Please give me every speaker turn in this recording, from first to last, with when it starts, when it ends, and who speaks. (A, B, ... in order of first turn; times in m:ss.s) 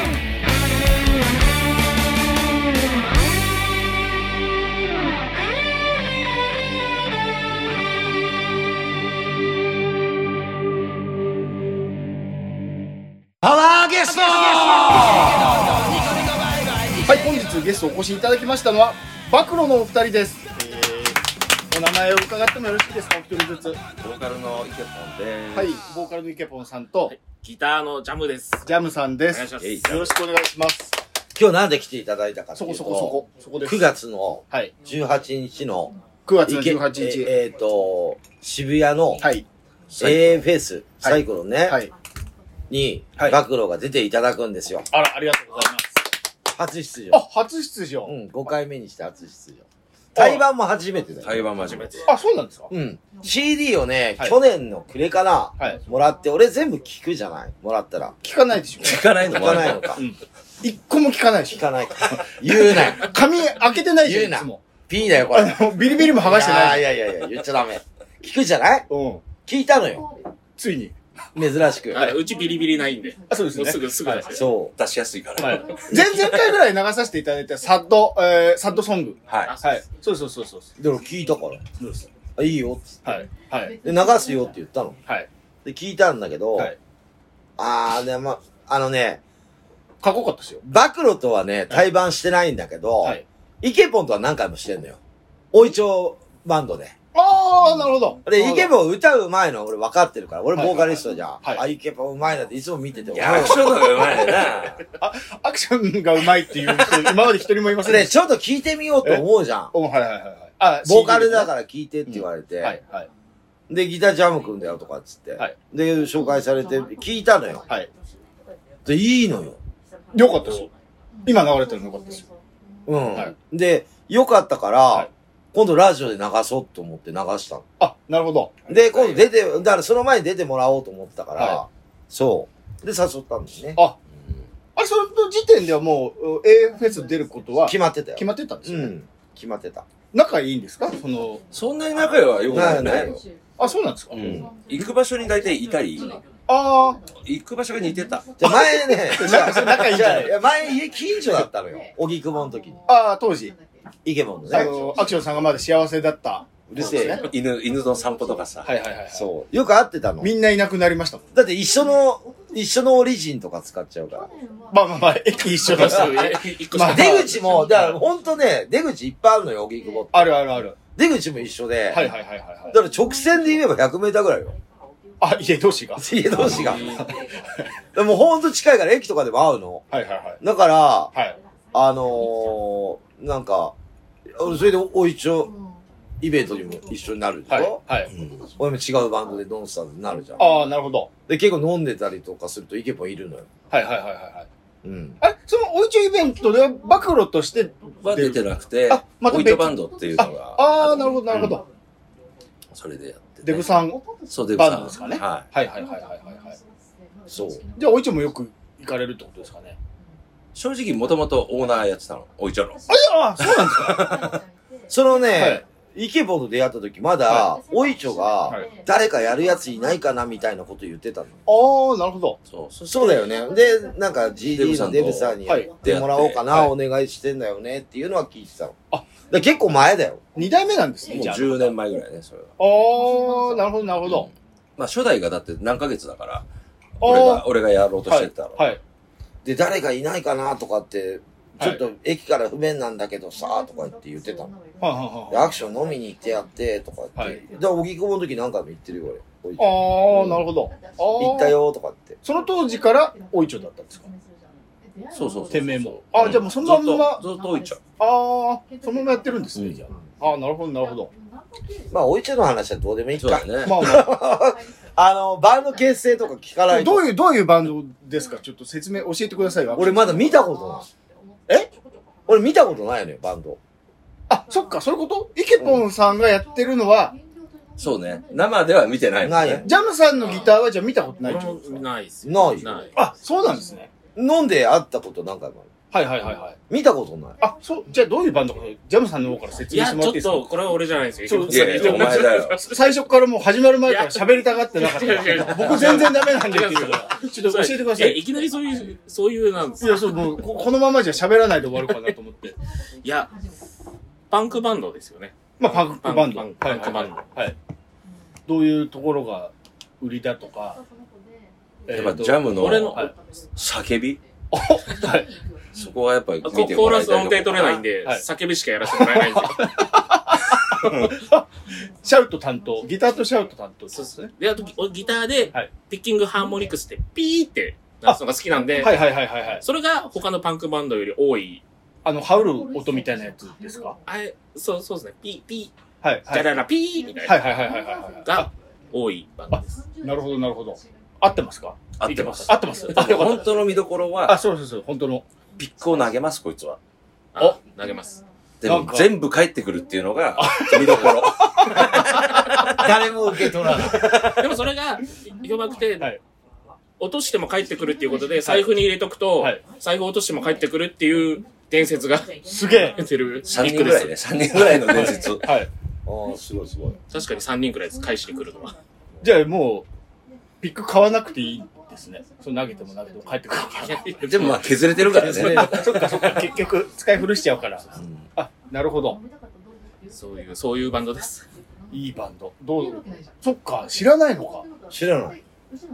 0:13.4-0:15.0 A
0:17.0-0:23.8 B
0:24.0-0:25.8 C
0:25.5-0:27.1 B
0:27.1-0:28.7 D
0:28.6-0:30.9 B
0:29.3-0:29.9 D
0:29.6-0:30.1 C
0:31.3-0:35.9 A
0:32.6-0:33.9 B
0:36.3-0:37.3 B
0:36.4-0:39.2 A
0:39.2-0:39.4 B
0:40.0-0:41.8 A
0:41.0-0:41.9 B
0:42.7-0:44.9 A
0:44.9-0:46.0 B
0:46.5-0:47.2 A
0:47.1-0:48.1 B
0:48.0-0:51.5 A
0:50.2-0:50.4 B
0:51.2-0:52.1 C
0:51.7-0:52.0 D
0:52.0-0:52.7 B
0:52.7-0:58.2 A
0:58.2-0:59.0 B
0:58.8-1:00.0 C
0:59.2-1:00.0 A
0:59.9-1:04.6 B
1:01.5-1:03.1 A
1:04.0-1:08.9 A
1:05.3-1:06.8 B
1:08.9-1:09.2 B
1:09.4-1:10.0 A
1:10.6-1:11.0 B
1:11.3-1:12.2 A
1:11.9-1:14.5 D
1:13.3-1:14.3 B
1:14.3-1:14.7 A
1:14.8-1:15.8 C
1:15.4-1:20.7 B
1:19.3-1:19.6 C
1:19.4-1:19.8 D
1:20.8-1:21.6 A
1:21.8-1:22.1 B
1:22.4-1:23.1 A
1:23.0-1:23.8 B
1:23.8-1:25.0 A
1:25.6-1:26.7 A
1:27.6-1:29.2 A
1:30.0-1:30.6 B
1:30.6-1:35.0 A
1:35.5-1:36.9 A
1:37.1-1:38.7 B
1:38.2-1:44.4 A
1:40.5-1:40.8 B
1:43.1-1:44.8 C
1:44.9-1:48.1 B
1:47.8-1:49.7 A
1:49.0-1:51.5 B
1:50.8-1:52.8 A
1:52.1-1:53.1 B
1:53.7-1:57.6 A
1:58.8-1:59.6 A
2:00.1-2:00.7 B
2:01.2-2:02.2 B
2:02.8-2:07.6 A
2:07.8-2:08.6 B
2:08.7-2:13.8 A
2:11.4-2:11.6 B
2:14.8-2:18.9 B
2:17.6-2:19.8 A
2:20.1-2:21.4 B
2:21.5-2:23.2 C
2:22.5-2:23.2 A
2:23.6-2:24.3 B
2:24.1-2:26.2 C
2:24.1-2:24.5 A
2:26.5-2:27.0 B
2:27.2-2:28.3 C
2:28.4-2:32.8 A
2:28.4-2:30.4 B
2:32.9-2:33.5 B
2:34.0-2:34.7 A
2:34.5-2:37.3 B
2:36.7-2:37.3 A
2:36.8-2:38.8 C
2:38.6-2:39.3 B
2:39.1-2:40.3 A
2:40.2-2:41.3 B
2:41.3-2:44.3 A
2:44.7-2:48.0 B
2:45.6-2:47.6 D
2:45.8-2:46.2 A
2:46.8-2:52.1 A
2:50.1-2:50.8 B
2:51.9-2:52.8 B
2:52.7-2:54.6 A
2:55.2-2:57.2 B
2:56.0-2:57.0 A
2:57.9-2:59.8 A
2:59.9-3:00.4 B
3:00.4-3:01.1 A
3:01.1-3:01.4 B
3:01.7-3:03.7 A
3:04.3-3:05.5 A
3:06.2-3:07.8 A
3:07.5-3:08.1 B
3:08.6-3:10.4 A
3:10.4-3:11.1 B
3:11.3-3:13.5 A
3:13.7-3:14.5 B
3:14.8-3:15.2 A
3:15.2-3:21.6 B
3:18.0-3:21.6 C
3:22.7-3:23.7 C
3:23.4-3:24.0 B
3:24.3-3:25.5 C
3:24.6-3:26.6 B
3:27.3-3:27.6 A
3:27.8-3:29.8 B
3:30.5-3:32.8 C
3:32.9-3:34.3 B
3:33.4-3:34.2 C
3:34.9-3:41.4 A
3:35.3-3:35.6 B
3:37.3-3:37.5 B
3:41.4-3:42.4 B
3:42.5-3:43.3 C
3:42.9-3:50.2 A
3:44.5-3:46.7 C
3:45.4-3:45.7 B
3:50.4-3:51.8 B
3:51.0-3:52.5 C
3:52.6-3:54.3 B
3:54.0-3:56.4 C
3:57.0-3:58.6 C
3:57.0-3:57.4 B
3:58.1-3:58.8 B
3:59.4-4:04.5 A
4:01.6-4:01.8 B
4:04.8-4:05.5 B
4:05.3-4:10.4 A
4:09.6-4:11.5 B
4:11.2-4:12.2 A
4:12.2-4:14.1 B
4:15.1-4:17.8 C
4:15.5-4:17.2 B
4:18.0-4:21.1 B
4:19.5-4:19.8 C
4:21.9-4:27.1 A
4:23.1-4:23.8 C
4:23.6-4:24.1 B
4:26.7-4:30.3 B
4:29.7-4:30.9 A
4:32.3-4:33.6 A
4:34.3-4:37.2 B
4:37.8-4:39.7 C
4:39.2-4:39.7 A
4:39.6-4:41.8 B
4:40.2-4:40.5 D
4:41.2-4:43.0 D
4:42.2-4:42.9 A
4:42.9-4:43.9 B
4:44.1-4:45.7 A
4:45.9-4:46.6 B
4:46.7-4:47.4 A
4:47.4-4:50.6 B
4:49.7-4:53.0 D
4:51.2-4:58.2 B
4:51.5-4:52.6 C
4:53.8-5:00.4 D
4:59.8-5:02.6 B
5:03.0-5:03.3 D
5:04.3-5:07.3 D
5:05.6-5:07.6 B
5:08.5-5:10.8 B
5:11.9-5:13.1 B
5:11.9-5:14.2 C
5:12.5-5:13.1 D
5:14.5-5:15.3 B
5:15.7-5:17.8 C
5:16.4-5:19.8 D
5:18.9-5:21.5 B
5:22.0-5:24.3 B
5:23.9-5:31.6 D
5:28.8-5:29.6 B
5:32.0-5:34.0 B
5:34.0-5:35.7 D
5:36.0-5:36.6 B
5:36.3-5:37.6 D
5:37.2-5:38.5 B
5:38.2-5:39.8 D
5:39.5-5:41.8 B
5:42.0-5:44.4 C
5:42.0-5:43.2 D
5:42.4-5:43.5 B
5:44.2-5:45.2 B
5:45.6-5:46.8 C
5:47.3-5:48.2 D
5:48.6-5:52.1 C
5:48.6-5:49.1 B
5:50.4-5:52.8 B
5:52.7-5:54.4 A
5:54.3-5:56.1 D
5:57.0-6:04.1 D
5:58.4-5:58.8 B
5:59.4-5:59.6 B
6:02.4-6:03.1 B
6:03.4-6:05.5 C
6:04.6-6:05.7 B
6:06.0-6:07.0 A
6:07.1-6:08.8 D
6:09.2-6:09.9 B
6:10.6-6:14.3 B
6:13.8-6:14.7 D
6:14.2-6:16.4 C
6:15.1-6:16.0 A
6:15.2-6:19.2 B
6:20.1-6:21.4 D
6:21.9-6:24.7 B
6:24.9-6:25.4 A